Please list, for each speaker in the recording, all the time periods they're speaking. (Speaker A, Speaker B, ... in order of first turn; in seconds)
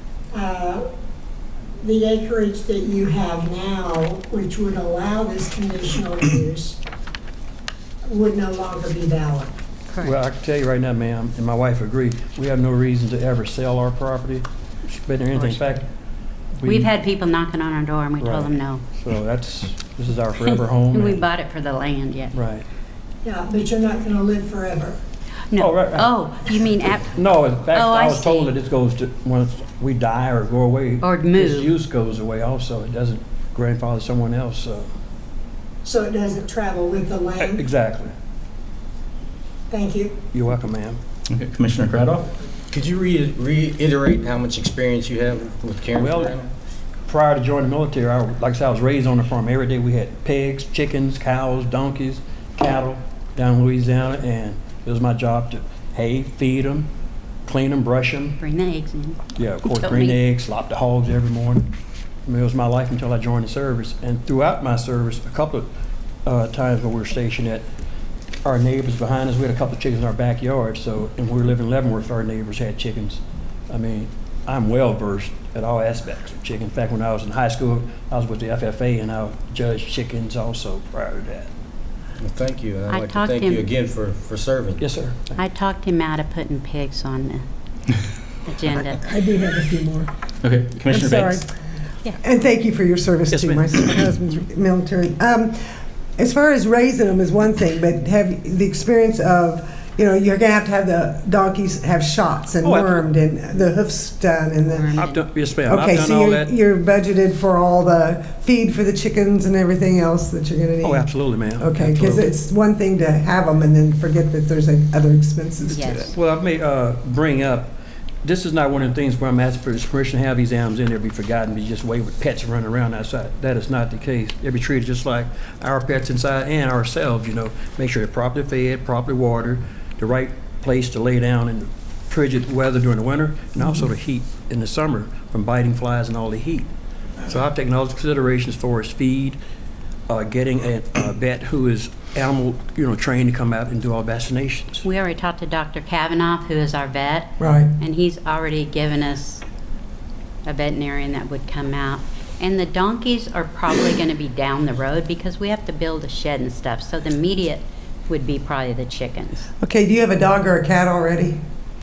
Speaker A: 0.3-0.8, 1.8-6.8, 8.1-9.5, 23.2-25.0, 35.8-37.6, 39.7-40.2
Speaker B: 9.9-10.2, 15.4-15.7, 16.6-18.8, 20.9-22.4, 25.5-27.2, 27.7-28.5, 31.0-31.7, 58.4-60.2, 82.9-83.7, 85.4-87.5, 88.5-89.0, 104.7-105.2, 115.7-116.2, 144.8-149.4, 150.4-159.5
Speaker C: 10.0-15.8, 16.6-16.9, 18.2-21.3, 22.3-22.6, 25.6-26.5, 27.1-34.9, 37.4-38.1, 40.3-41.0, 45.9-46.4, 47.1-56.9, 57.5-58.4, 59.4-61.7, 62.3-65.7, 66.2-67.7, 68.4-81.5, 84.8-85.4, 93.3-94.0, 102.6-103.0, 104.9-106.5, 110.8-112.3, 116.1-136.7, 137.2-139.4, 140.1-144.9
Speaker D: 41.3-42.2, 90.4-91.4
Speaker E: 42.7-46.5, 82.2-84.8
Speaker F: 89.0-90.1, 90.9-91.5, 92.2-104.9, 105.7-116.1, 147.4-147.8, 159.6-161.4